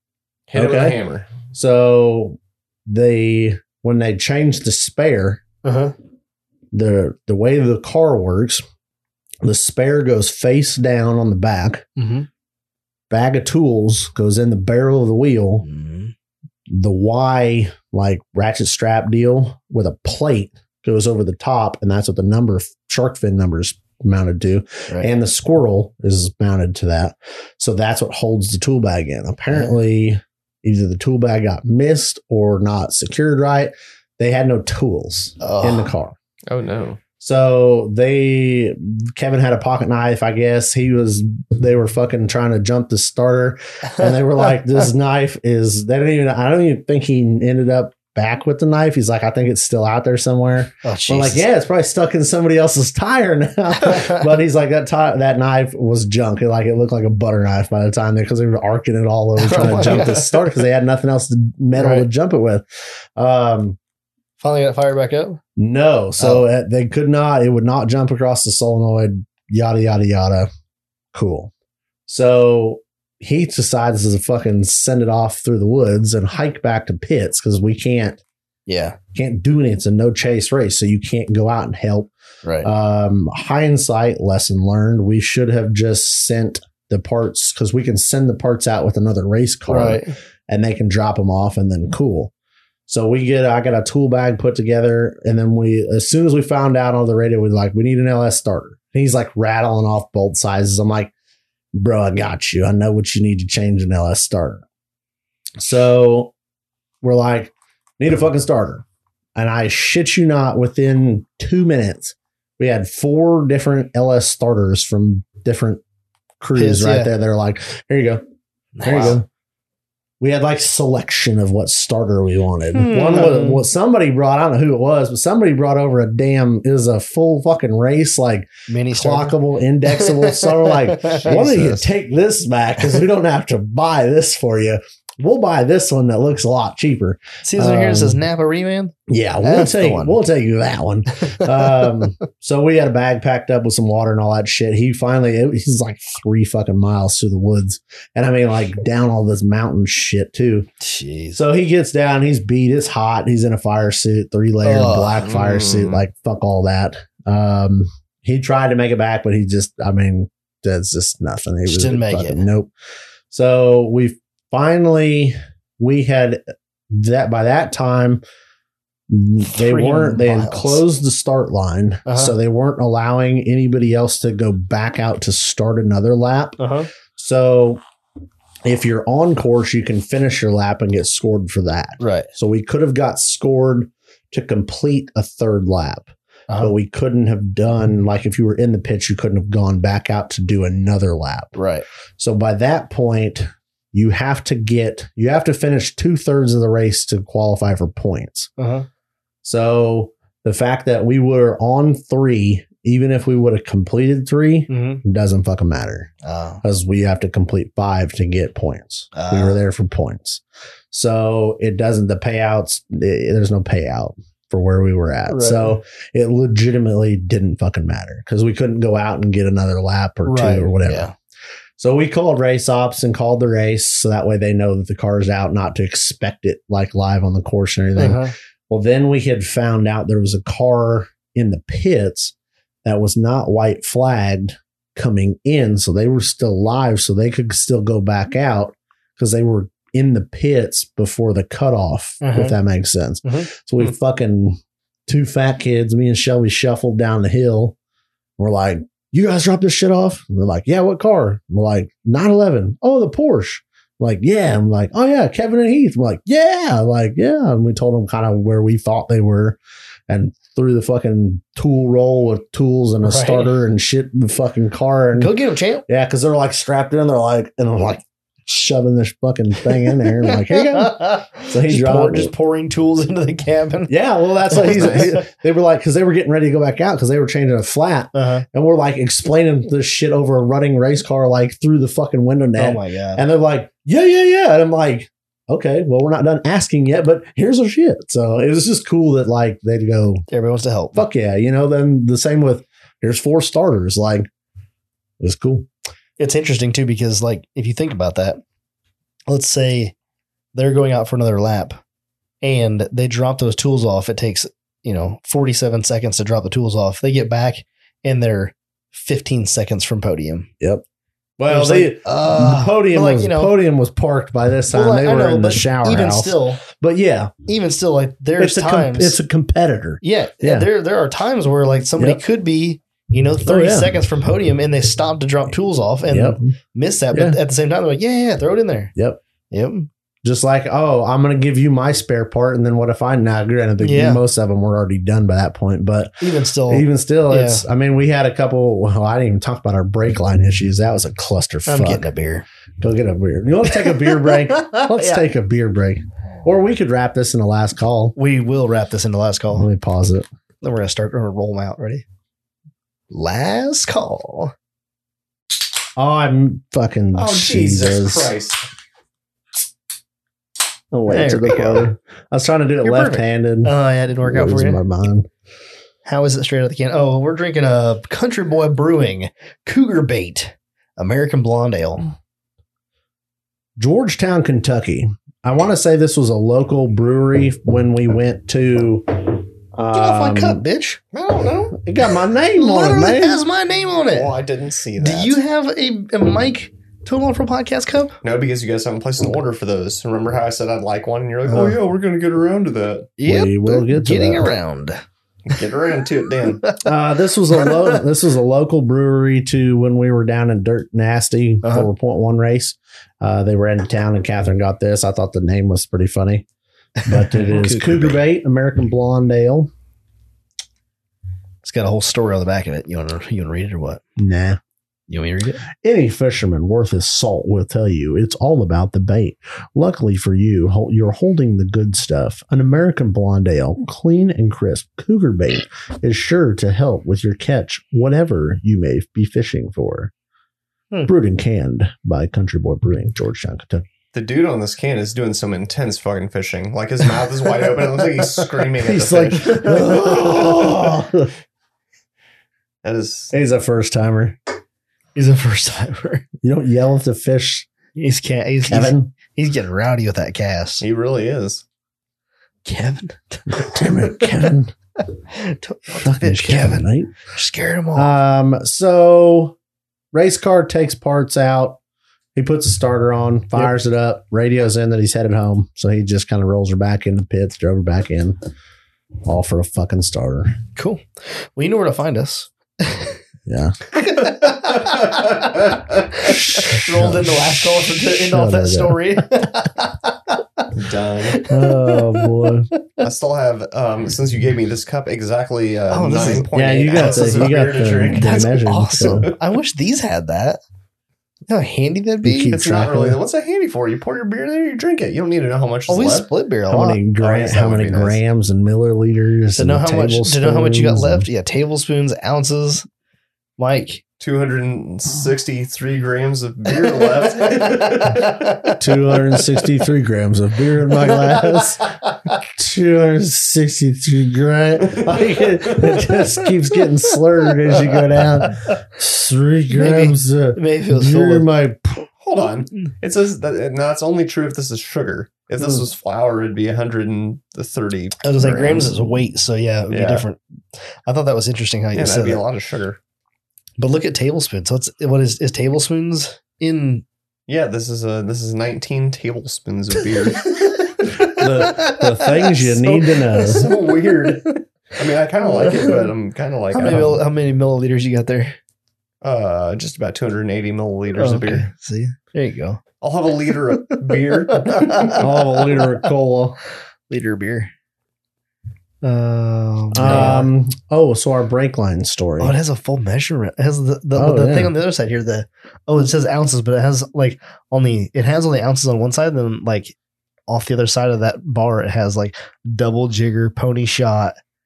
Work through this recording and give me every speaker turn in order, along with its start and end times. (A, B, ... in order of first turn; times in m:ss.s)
0:00.5-0:01.3 A
0:00.5-0:05.4 B
0:05.6-0:05.9 C
0:06.7-0:08.6 B
0:09.4-0:11.9 B
0:12.0-0:12.3 C
0:13.1-0:15.6 B
0:15.6-0:16.1 C
0:16.7-0:36.2 B
0:35.4-0:35.9 C
0:36.5-0:37.0 A
0:37.2-1:02.6 B
0:43.9-0:44.5 C
0:50.8-0:51.4 C
0:53.8-0:54.1 C
0:59.4-1:00.2 C
0:59.9-1:00.2 A
1:01.7-1:02.1 C
1:03.2-1:03.8 B
1:04.4-1:05.4 C
1:05.6-1:10.5 B
1:06.2-1:06.4 C
1:11.1-1:11.5 B
1:12.1-1:18.2 B
1:18.7-1:19.0 C
1:19.1-1:32.3 B
1:22.4-1:22.7 C
1:29.7-1:30.1 C
1:32.9-1:41.1 B
1:41.7-1:44.6 B
1:45.6-1:46.3 B
1:47.0-1:48.8 B
1:49.4-1:55.8 B
1:56.4-1:58.2 B
1:56.6-1:57.1 C
1:58.8-1:59.2 C
1:58.8-1:59.2 B
2:00.2-2:18.2 B
2:02.7-2:03.6 C
2:08.7-2:09.4 C
2:09.9-2:11.5 C
2:11.3-2:11.9 A
2:17.4-2:20.2 C
2:19.1-2:30.7 B
2:21.2-2:21.5 C
2:30.8-2:31.4 C
2:31.3-2:42.7 B
2:34.6-2:35.4 C
2:35.3-2:36.0 A
2:41.7-2:42.4 C
2:43.3-2:48.2 B
2:49.1-2:56.6 B
2:49.5-2:50.8 C
2:52.0-2:52.3 C
2:56.6-2:56.9 C
2:57.2-2:57.8 B
2:58.6-3:11.6 B
3:02.0-3:02.3 C
3:11.5-3:11.8 C
3:12.2-3:18.5 B
3:18.6-3:18.8 C
3:19.4-3:26.1 B
3:24.7-3:25.0 C
3:26.2-3:26.6 C
3:26.6-3:41.1 B
3:29.1-3:29.6 C
3:35.3-3:35.8 C
3:40.2-3:41.1 C
3:41.8-3:52.3 B
3:48.0-3:48.3 C
3:52.8-4:07.8 B
4:02.2-4:02.6 C
4:08.4-4:19.6 B
4:20.1-4:32.3 B
4:23.0-4:23.5 C
4:25.1-4:25.8 C
4:30.2-4:33.9 C
4:33.9-4:50.2 B
4:34.5-4:35.2 C
4:34.7-4:35.1 A
4:38.1-4:38.4 C
4:42.6-4:43.2 C
4:50.3-4:51.0 C
4:50.9-4:54.3 B
4:55.2-4:55.7 B
4:56.2-4:58.4 C
4:59.3-4:59.9 C
5:00.5-5:01.8 C
5:02.4-5:10.5 C
5:11.4-5:17.3 B
5:11.5-5:13.5 C
5:14.7-5:16.6 C
5:17.5-5:19.2 C
5:18.4-5:20.7 B
5:20.0-5:28.9 C
5:23.4-5:23.9 B
5:26.1-5:26.5 B
5:27.1-5:27.4 B
5:29.5-5:29.9 C
5:30.2-5:42.1 B
5:33.8-5:34.2 C
5:36.2-5:37.6 C
5:41.7-5:42.4 C
5:42.8-5:48.1 B
5:43.8-5:45.2 C
5:48.2-5:49.7 C
5:49.5-5:50.3 B
5:50.6-5:52.0 C
5:53.1-5:54.5 C
5:56.0-5:58.3 B
5:57.1-5:58.6 A
6:00.9-6:05.3 B
6:01.1-6:01.9 C
6:02.8-6:04.8 C
6:06.0-6:12.1 C
6:13.8-6:20.6 B
6:19.9-6:21.0 C
6:21.1-6:21.8 A
6:21.7-6:23.4 B
6:22.6-6:24.3 C
6:24.1-6:25.4 A
6:25.0-6:28.2 C
6:28.2-6:33.1 A
6:33.2-6:35.0 C
6:33.2-6:34.5 B
6:35.5-6:36.7 A
6:36.8-6:46.4 B
6:47.0-6:48.2 C
6:47.0-6:49.7 B
6:51.6-6:54.0 C
6:54.2-6:54.6 B
6:55.1-6:55.6 C
6:55.8-7:10.1 B
7:11.1-7:13.9 B
7:14.1-7:20.8 A
7:18.8-7:21.3 B
7:22.8-7:23.3 A
7:23.3-7:24.4 B
7:25.2-7:26.2 C
7:26.4-7:27.7 B
7:28.0-7:30.8 C
7:28.7-7:29.1 B
7:30.8-7:31.6 A
7:32.6-7:34.3 C
7:33.5-7:34.7 B
7:35.3-7:38.1 C
7:35.9-7:37.1 B
7:37.9-7:39.6 B
7:40.1-7:41.8 B
7:42.3-7:48.4 B
7:49.2-7:50.6 B
7:50.8-7:53.2 C
7:53.4-7:53.9 B
7:54.0-7:55.6 C
7:55.2-7:55.8 A
7:56.1-8:00.6 C
7:56.2-7:59.4 B
8:00.7-8:01.4 A
8:01.3-8:02.9 C
8:01.4-8:02.7 B
8:03.0-8:09.3 A
8:05.9-8:10.6 C
8:06.4-8:09.3 B
8:11.5-8:12.6 C
8:12.2-8:13.2 B
8:12.5-8:16.3 A
8:15.9-8:17.4 C
8:16.7-8:21.2 B
8:17.2-8:18.2 A
8:19.5-8:22.8 C
8:23.6-8:24.0 C
8:24.2-8:28.6 A
8:27.4-8:28.8 C
8:28.8-8:42.1 B
8:31.0-8:31.6 C
8:37.9-8:38.5 C
8:39.7-8:41.5 C
8:42.2-8:49.1 A
8:48.2-8:50.4 C
8:49.9-8:50.2 A
8:51.0-8:52.4 C
8:51.9-8:53.0 A
8:53.8-8:57.0 C
8:57.5-9:00.6 A
9:00.4-9:04.5 C
9:01.1-9:03.7 B
9:03.2-9:07.2 A
9:05.6-9:06.0 C
9:06.7-9:08.6 C
9:09.2-9:11.7 A
9:11.2-9:12.8 C
9:13.0-9:15.2 A
9:14.5-9:15.2 C
9:15.2-9:16.6 B
9:17.1-9:17.7 C
9:19.0-9:20.5 C
9:19.9-9:22.6 B
9:22.4-9:29.9 C
9:24.1-9:24.7 B
9:30.5-9:34.3 C